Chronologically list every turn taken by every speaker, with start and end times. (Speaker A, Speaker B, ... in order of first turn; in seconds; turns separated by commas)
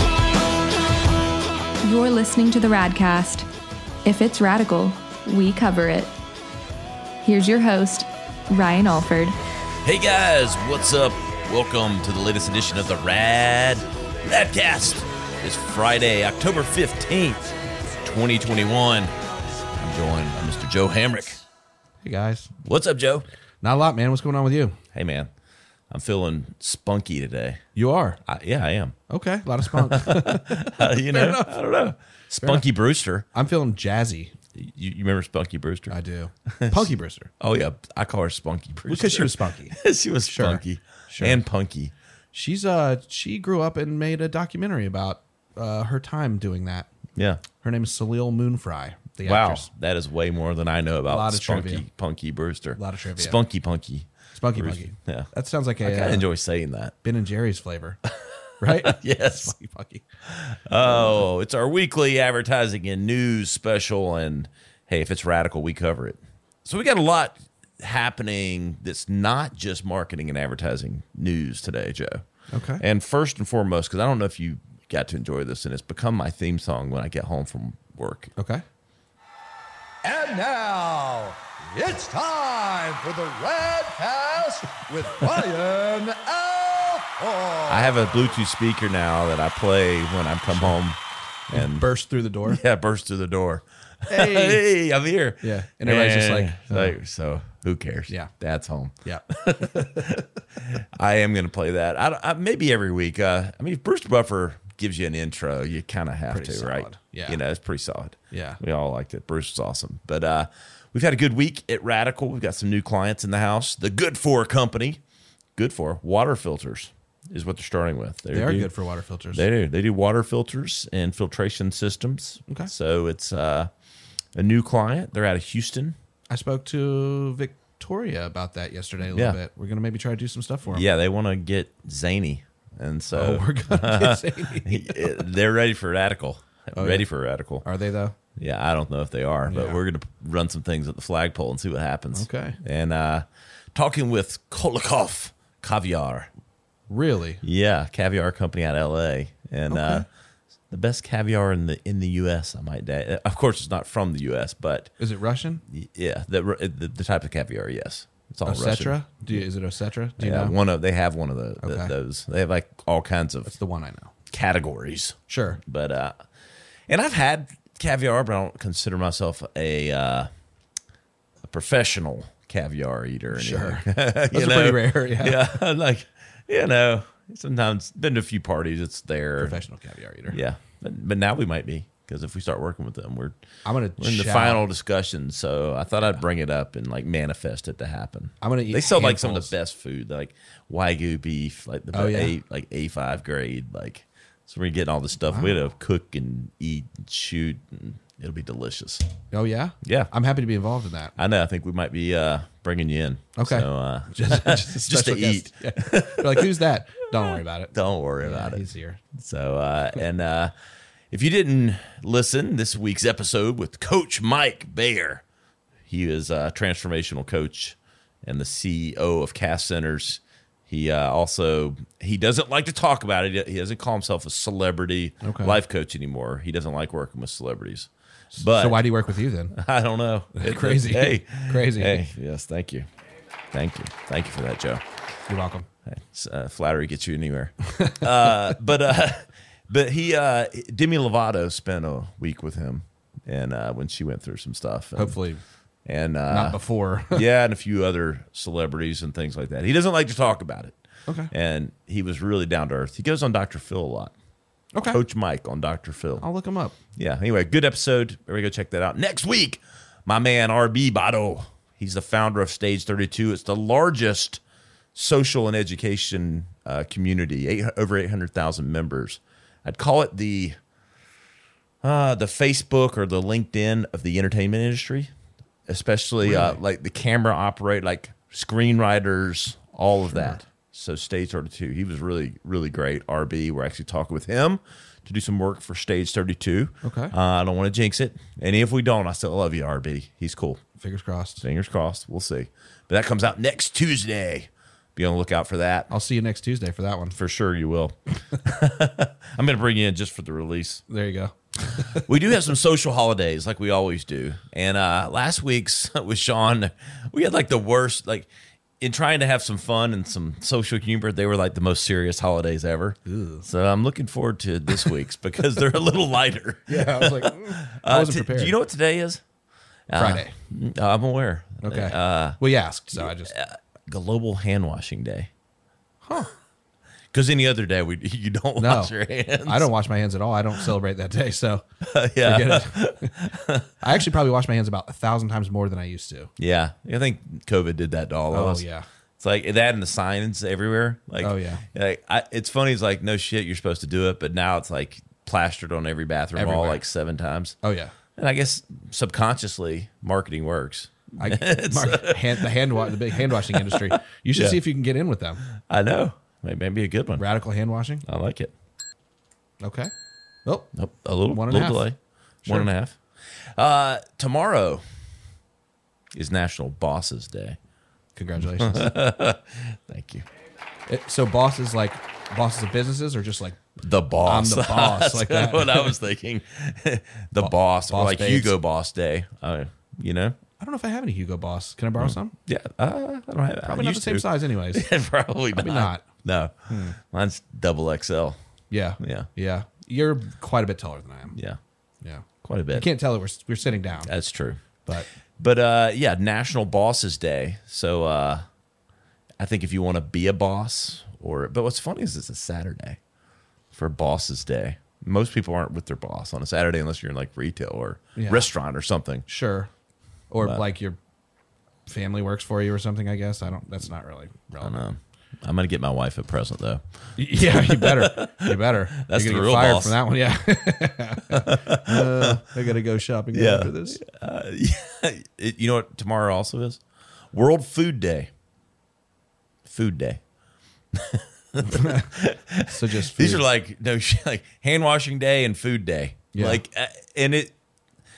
Speaker A: 1.8-3.5, Speaker A: 4.0-6.1, Speaker A: 7.2-9.4, Speaker B: 9.8-19.1, Speaker B: 19.8-21.4, Speaker C: 22.0-22.5, Speaker B: 22.6-23.3, Speaker C: 23.6-24.8, Speaker B: 24.9-25.3, Speaker B: 25.9-27.6, Speaker C: 27.8-28.2, Speaker B: 28.3-29.0, Speaker C: 29.1-31.6, Speaker B: 29.8-33.3, Speaker C: 33.3-34.3, Speaker B: 34.5-36.0, Speaker C: 35.9-37.3, Speaker B: 36.5-41.9, Speaker C: 38.9-41.4, Speaker C: 42.3-46.9, Speaker B: 47.2-47.4, Speaker C: 47.6-49.7, Speaker B: 49.2-55.3, Speaker C: 51.1-51.9, Speaker C: 52.8-53.4, Speaker C: 54.4-56.2, Speaker B: 55.8-56.9, Speaker C: 57.0-58.0, Speaker B: 58.1-59.5, Speaker C: 58.6-60.0, Speaker B: 60.3-72.2, Speaker C: 60.8-61.2, Speaker C: 72.5-72.8, Speaker B: 72.8-78.3, Speaker C: 78.4-78.6, Speaker D: 80.0-88.4, Speaker B: 87.7-91.0, Speaker B: 91.5-91.9, Speaker C: 91.5-92.6, Speaker B: 92.4-115.0, Speaker C: 94.1-94.6, Speaker C: 95.4-97.0, Speaker C: 99.0-100.1, Speaker C: 106.3-107.4, Speaker C: 108.3-108.6, Speaker B: 115.6-118.7, Speaker C: 118.3-119.4, Speaker B: 119.3-123.7, Speaker B: 124.3-126.0, Speaker C: 126.3-130.9, Speaker B: 129.1-129.4, Speaker B: 130.7-137.7, Speaker C: 133.1-135.2, Speaker C: 136.8-137.1, Speaker C: 137.6-138.2, Speaker B: 138.4-146.3, Speaker C: 139.5-139.8, Speaker C: 142.1-142.6, Speaker C: 146.9-147.4, Speaker B: 147.4-150.1, Speaker C: 149.7-150.1, Speaker B: 150.7-154.9, Speaker C: 155.0-155.6, Speaker B: 155.7-159.4, Speaker C: 158.4-160.6, Speaker B: 160.2-163.5, Speaker C: 161.6-161.9, Speaker C: 163.5-164.1, Speaker B: 164.3-166.2, Speaker C: 165.3-165.6, Speaker B: 166.9-170.3, Speaker B: 171.5-179.6, Speaker C: 173.3-175.5, Speaker C: 179.4-180.4, Speaker B: 180.3-183.4, Speaker C: 183.7-184.6, Speaker B: 184.0-199.0, Speaker C: 188.4-189.5, Speaker C: 191.9-192.3, Speaker C: 195.3-195.6, Speaker C: 199.3-201.1, Speaker B: 199.8-200.1, Speaker B: 201.2-210.5, Speaker C: 203.4-209.0, Speaker B: 211.1-215.2, Speaker B: 215.9-228.8, Speaker C: 225.2-225.6, Speaker C: 228.3-229.5, Speaker B: 229.5-232.9, Speaker C: 230.3-232.1, Speaker B: 233.5-234.8, Speaker C: 235.3-235.7, Speaker B: 235.9-245.2, Speaker C: 237.7-238.6, Speaker C: 245.0-245.4, Speaker B: 245.9-246.6, Speaker C: 246.3-247.3, Speaker B: 247.1-250.8, Speaker B: 251.3-254.1, Speaker C: 254.7-255.0, Speaker B: 254.9-256.2, Speaker C: 256.2-256.8, Speaker B: 257.0-264.4, Speaker B: 264.9-270.6, Speaker B: 271.8-275.1, Speaker B: 275.7-290.6, Speaker C: 276.2-276.6, Speaker C: 280.1-280.4, Speaker C: 286.8-287.1, Speaker C: 290.8-291.4, Speaker B: 291.4-295.9, Speaker C: 295.9-297.2, Speaker B: 297.1-300.8, Speaker C: 300.9-302.1, Speaker B: 301.9-308.3, Speaker B: 308.8-319.2, Speaker C: 313.1-313.5, Speaker C: 316.7-318.6, Speaker B: 319.9-322.4, Speaker C: 319.9-320.3, Speaker C: 321.6-323.3, Speaker B: 322.9-325.3, Speaker C: 326.0-326.3, Speaker B: 327.1-329.7, Speaker C: 328.6-331.6, Speaker B: 331.8-333.8, Speaker C: 332.2-333.1, Speaker C: 333.8-336.3, Speaker B: 336.4-338.6, Speaker C: 338.3-338.9, Speaker B: 339.2-347.6, Speaker C: 341.2-341.6, Speaker C: 346.4-346.8, Speaker C: 347.6-347.9, Speaker B: 348.1-354.6, Speaker C: 351.2-355.4, Speaker B: 355.5-357.3, Speaker C: 357.2-358.0, Speaker B: 358.1-358.5, Speaker C: 359.6-359.9, Speaker C: 360.4-360.7, Speaker B: 360.8-363.0, Speaker C: 361.3-361.9, Speaker C: 362.4-362.7, Speaker B: 363.6-364.8, Speaker B: 366.1-367.6, Speaker C: 368.1-368.9, Speaker B: 368.5-370.2, Speaker C: 370.9-373.6, Speaker B: 373.8-380.4, Speaker C: 374.2-376.0, Speaker C: 377.4-378.6, Speaker C: 380.6-382.3, Speaker B: 382.0-388.4, Speaker C: 383.6-384.9, Speaker C: 385.5-386.1, Speaker C: 386.7-387.0, Speaker C: 388.7-391.4, Speaker B: 389.0-389.3, Speaker C: 392.0-394.1, Speaker B: 392.4-392.9, Speaker B: 394.1-394.6, Speaker B: 395.4-398.4, Speaker B: 399.4-403.0, Speaker B: 403.7-409.3, Speaker C: 408.2-408.5, Speaker C: 409.3-409.7, Speaker C: 410.3-411.0, Speaker C: 411.9-414.9, Speaker B: 414.6-420.0, Speaker C: 417.2-424.0, Speaker B: 421.3-422.4, Speaker B: 423.3-426.8, Speaker B: 427.3-428.3, Speaker B: 429.7-430.2, Speaker B: 430.9-437.5, Speaker C: 431.6-432.1, Speaker C: 432.7-433.5, Speaker C: 436.3-436.6